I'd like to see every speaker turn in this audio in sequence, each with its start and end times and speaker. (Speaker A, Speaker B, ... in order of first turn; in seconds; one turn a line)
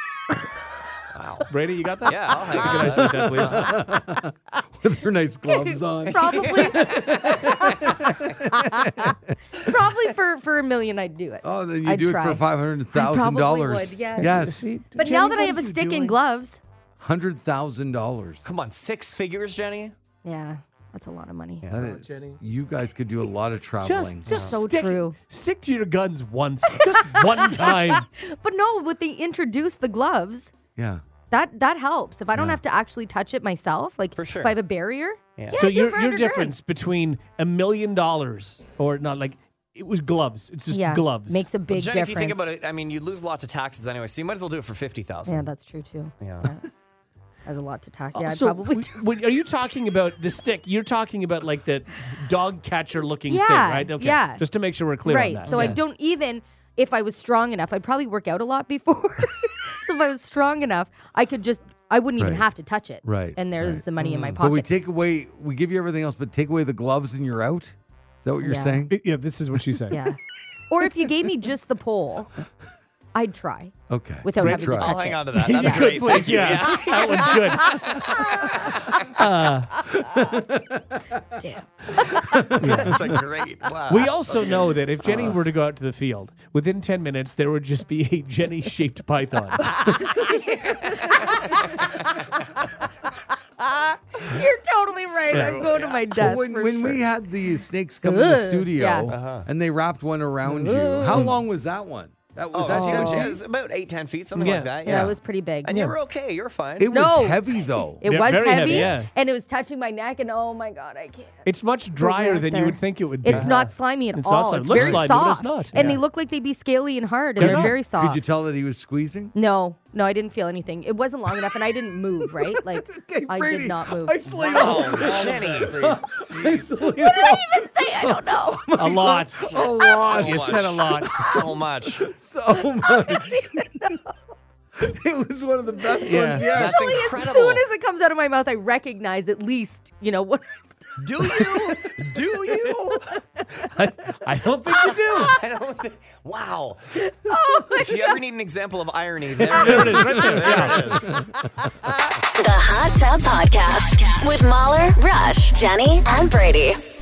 Speaker A: 1.1-1.5
Speaker B: 1.5-3.7
Speaker A: 2.0-3.7
Speaker C: 2.7-9.7
Speaker D: 5.5-16.6
Speaker A: 6.2-7.2
Speaker C: 11.4-14.7
Speaker B: 14.2-16.2
Speaker C: 17.0-18.4
Speaker A: 18.4-19.9
Speaker D: 20.2-21.6
Speaker A: 21.6-21.9
Speaker C: 21.7-24.3
Speaker B: 21.8-22.4
Speaker B: 23.8-28.1
Speaker A: 24.3-24.6
Speaker D: 24.3-25.1
Speaker D: 26.7-30.5
Speaker C: 30.8-31.0
Speaker D: 31.3-36.5
Speaker A: 34.1-34.6
Speaker B: 35.5-41.5
Speaker D: 40.7-42.5
Speaker A: 41.7-45.5
Speaker D: 45.3-46.6
Speaker A: 46.2-46.5
Speaker D: 47.5-49.0
Speaker B: 48.1-55.8
Speaker D: 53.3-54.4
Speaker D: 55.0-64.7
Speaker C: 62.2-62.5
Speaker C: 63.0-69.0
Speaker D: 68.4-68.8
Speaker B: 68.9-70.0
Speaker D: 69.9-70.2
Speaker D: 70.7-72.3
Speaker D: 73.1-73.7
Speaker C: 73.9-75.0
Speaker D: 74.2-76.3
Speaker B: 74.4-74.7
Speaker A: 74.8-79.0
Speaker B: 75.3-78.0
Speaker D: 77.8-78.7
Speaker B: 79.1-79.8
Speaker C: 79.9-81.4
Speaker D: 81.4-82.1
Speaker C: 81.9-83.2
Speaker B: 82.6-83.0
Speaker A: 82.7-84.5
Speaker B: 83.9-89.8
Speaker A: 89.9-91.8
Speaker D: 91.1-92.0
Speaker D: 93.6-97.0
Speaker A: 95.1-96.3
Speaker B: 95.3-95.7
Speaker C: 96.1-103.4
Speaker D: 98.0-99.1
Speaker A: 99.1-99.5
Speaker D: 100.5-101.3
Speaker B: 101.1-101.4
Speaker A: 102.5-106.9
Speaker D: 102.7-103.4
Speaker B: 104.3-104.8
Speaker D: 104.8-105.9
Speaker C: 104.8-105.1
Speaker B: 105.7-106.0
Speaker C: 106.8-108.0
Speaker D: 106.9-111.5
Speaker B: 108.0-109.1
Speaker A: 108.7-108.9
Speaker B: 111.4-113.6
Speaker D: 112.0-118.2
Speaker A: 113.3-113.7
Speaker B: 114.1-115.7
Speaker C: 114.7-115.1
Speaker A: 115.7-116.0
Speaker C: 117.4-119.3
Speaker B: 117.4-117.7
Speaker D: 119.3-125.1
Speaker C: 122.2-134.0
Speaker A: 124.4-126.6
Speaker D: 126.9-128.6
Speaker B: 128.8-129.5
Speaker A: 129.4-132.1
Speaker B: 130.1-131.2
Speaker D: 132.8-134.0
Speaker C: 134.8-137.1
Speaker D: 136.1-140.4
Speaker B: 136.1-136.5
Speaker A: 136.4-137.6
Speaker A: 141.0-143.1
Speaker B: 143.6-145.3
Speaker A: 145.3-146.9
Speaker D: 147.0-148.2
Speaker A: 147.7-151.2
Speaker C: 149.4-151.7
Speaker B: 149.5-151.0
Speaker E: 152.4-156.8